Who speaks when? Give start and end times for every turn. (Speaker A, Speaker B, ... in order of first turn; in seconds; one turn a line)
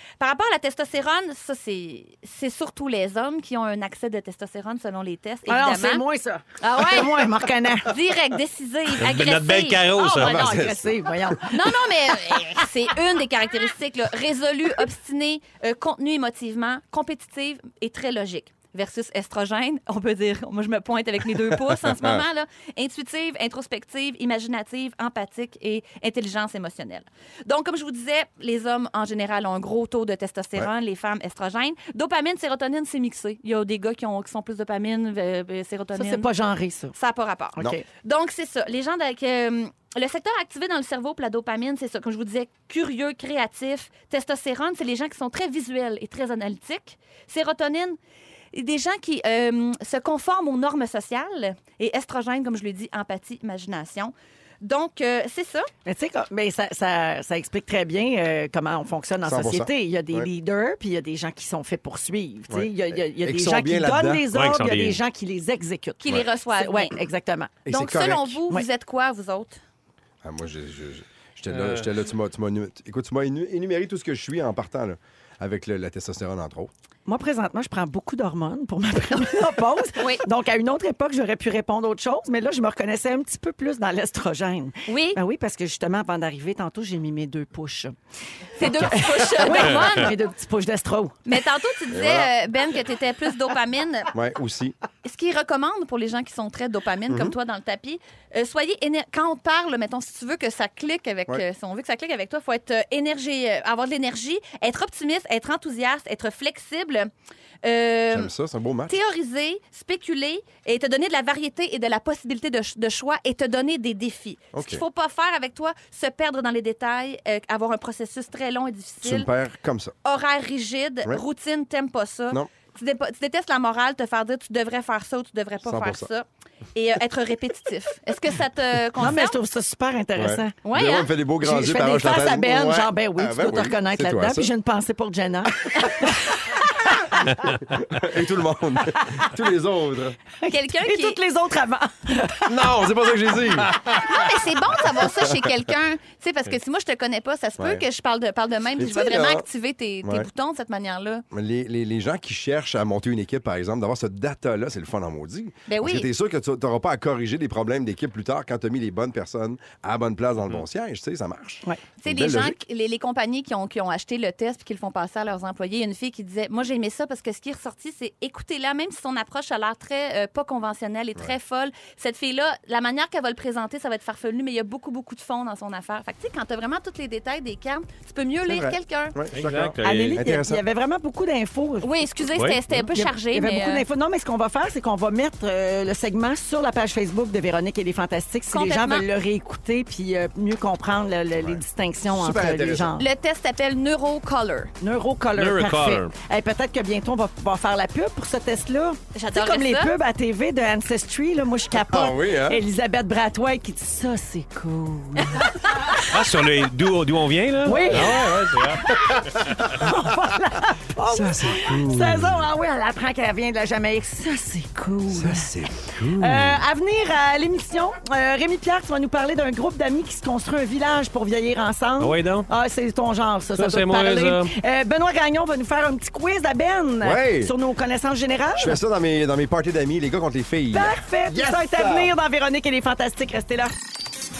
Speaker A: 0.2-6.0
Speaker B: 5.5-7.9
Speaker A: 6.6-7.3
Speaker A: 7.8-10.1
Speaker C: 9.0-10.5
Speaker B: 9.9-11.8
Speaker D: 10.2-11.3
Speaker A: 11.5-36.3
Speaker D: 21.4-22.2
Speaker B: 35.9-36.9
Speaker A: 36.9-48.0
Speaker B: 37.5-37.8
Speaker A: 48.5-55.7
Speaker B: 55.9-67.6
Speaker D: 59.2-60.3
Speaker D: 62.5-64.2
Speaker C: 64.3-65.0
Speaker A: 66.0-66.9
Speaker D: 67.7-68.4
Speaker A: 67.7-69.6
Speaker D: 70.2-76.7
Speaker C: 71.5-71.9
Speaker B: 77.1-87.9
Speaker A: 80.0-80.2
Speaker A: 84.9-85.2
Speaker A: 88.6-90.1
Speaker B: 88.6-91.2
Speaker A: 91.2-94.1
Speaker D: 91.9-92.3
Speaker D: 94.1-94.8
Speaker A: 95.0-107.1
Speaker D: 97.1-97.3
Speaker A: 107.6-108.3
Speaker D: 108.1-109.0
Speaker A: 108.9-119.3
Speaker D: 114.5-114.8
Speaker D: 119.0-119.9
Speaker A: 120.0-129.3
Speaker D: 125.6-126.1
Speaker B: 129.0-130.6
Speaker D: 130.2-134.5
Speaker A: 130.6-131.1
Speaker B: 131.4-137.5
Speaker D: 135.7-136.1
Speaker D: 137.6-140.2
Speaker B: 140.4-142.8
Speaker A: 140.5-141.2
Speaker D: 142.4-144.2
Speaker A: 143.9-151.2
Speaker D: 145.0-145.5
Speaker D: 147.6-147.8
Speaker D: 148.8-149.4
Speaker D: 150.0-150.3
Speaker D: 151.3-162.6
Speaker A: 155.7-156.1
Speaker A: 162.0-179.2
Speaker D: 178.4-180.6
Speaker C: 179.3-180.2
Speaker B: 179.8-181.9
Speaker A: 181.8-183.8
Speaker C: 182.3-182.6
Speaker B: 182.9-193.1
Speaker A: 188.5-189.0
Speaker D: 192.1-193.0
Speaker A: 193.0-194.7
Speaker B: 194.8-206.0
Speaker C: 195.3-196.1
Speaker A: 199.1-199.9
Speaker D: 201.9-202.6
Speaker C: 205.9-208.9
Speaker B: 207.6-215.5
Speaker D: 209.0-209.9
Speaker D: 211.1-212.4
Speaker D: 215.1-216.6
Speaker B: 216.1-228.8
Speaker C: 222.0-222.5
Speaker C: 223.6-224.5
Speaker D: 227.0-227.5
Speaker D: 228.6-232.1
Speaker B: 230.7-233.7